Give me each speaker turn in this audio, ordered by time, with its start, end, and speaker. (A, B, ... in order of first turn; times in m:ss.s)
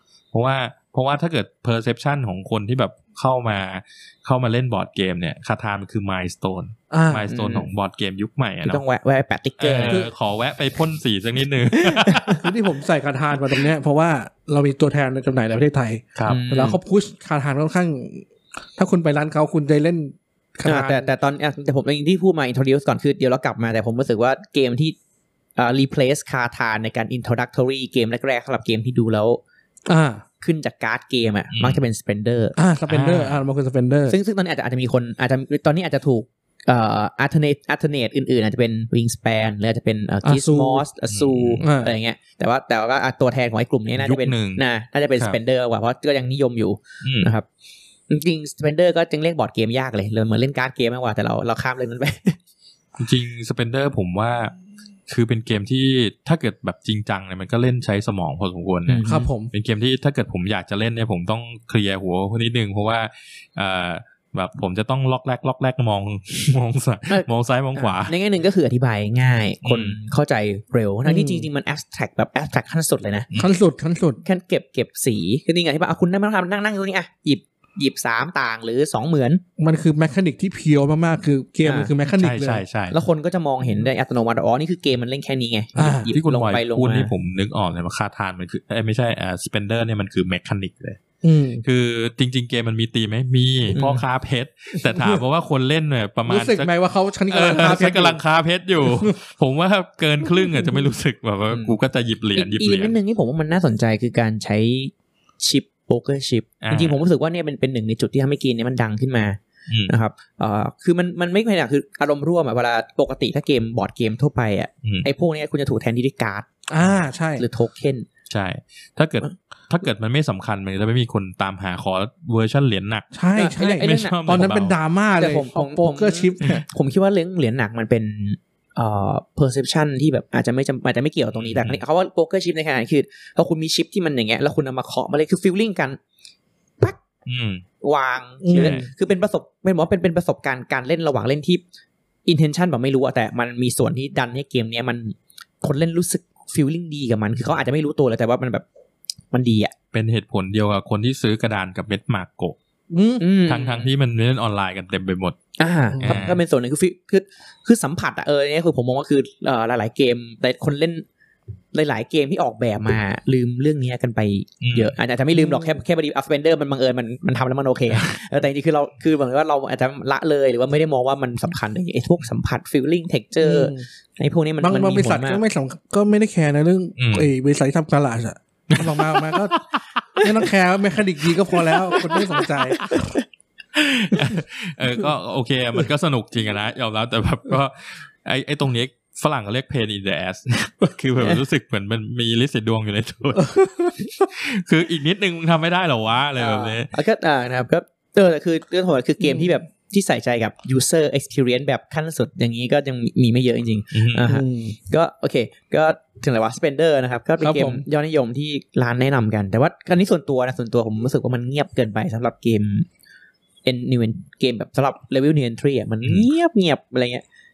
0:00.3-0:08.8 A
0:06.9-0:07.3 B
0:07.3-0:07.7 C
0:08.6-0:10.0 C
0:09.6-0:12.5 A
0:09.8-0:10.1 B
0:11.9-0:12.4 C
0:12.4-0:21.1 B
0:16.2-0:16.4 A
0:16.3-0:16.8 C
0:20.6-0:25.0 C
0:25.6-0:29.4 C
0:29.9-0:30.2 B
0:30.4-0:32.6 C
0:31.5-0:31.8 A
0:32.6-0:34.2 B
0:32.9-0:33.4 A
0:34.1-0:47.5 C
0:40.2-0:40.8 B
0:41.1-0:41.6 A
0:41.6-0:42.0 B
0:44.0-0:44.6 A
0:47.0-0:47.3 A
0:48.1-0:52.4 C
0:53.0-0:54.5 A
0:55.1-1:08.2 A
0:58.9-0:59.3 C
0:59.0-0:59.5 B
1:07.1-1:13.3 C
1:09.6-1:10.0 A
1:11.0-1:11.5 B
1:13.3-1:13.6 A
1:13.4-1:14.2 B
1:14.2-1:19.4 C
1:19.6-1:22.6 B
1:21.6-1:21.9 C
1:22.1-1:23.0 A
1:22.9-1:27.1 C
1:25.8-1:26.1 B
1:26.1-1:31.0 A
1:31.2-1:31.6 B
1:31.6-1:36.7 A
1:33.7-1:34.0 C
1:34.9-1:35.2 B
1:36.3-1:38.2 B
1:37.3-1:43.0 A
1:38.8-1:39.2 B
1:41.5-1:41.8 C
1:42.4-1:56.5 C
1:46.6-1:47.0 A
1:49.7-1:49.9 A
1:56.7-1:57.4 B
1:57.4-1:58.1 C
1:58.3-2:03.1 A
2:03.1-2:06.6 B
2:03.4-2:04.5 C
2:03.8-2:04.8 A
2:05.1-2:16.0 C
2:11.4-2:11.8 A
2:17.3-2:17.6 A
2:17.8-2:21.6 C
2:18.4-2:18.9 B
2:18.6-2:18.9 A
2:22.3-2:28.6 C
2:29.3-2:29.7 C
2:29.9-2:32.6 A
2:32.9-2:33.2 B
2:33.2-2:33.9 C
2:33.4-2:35.4 A
2:35.6-2:41.1 C
2:35.9-2:36.3 B
2:36.0-2:36.4 A
2:41.7-2:55.4 C
2:44.6-2:44.9 A
2:45.3-2:45.8 B
2:53.4-2:53.9 B
2:54.6-2:59.6 B
2:57.0-2:57.3 A
2:58.7-2:59.6 A
3:00.2-3:02.8 B
3:02.0-3:03.2 C
3:03.7-3:16.9 A
3:16.4-3:32.9 C
3:19.2-3:19.5 B
3:23.9-3:24.3 A
3:24.3-3:24.8 B
3:27.4-3:27.8 B
3:33.6-3:37.2 C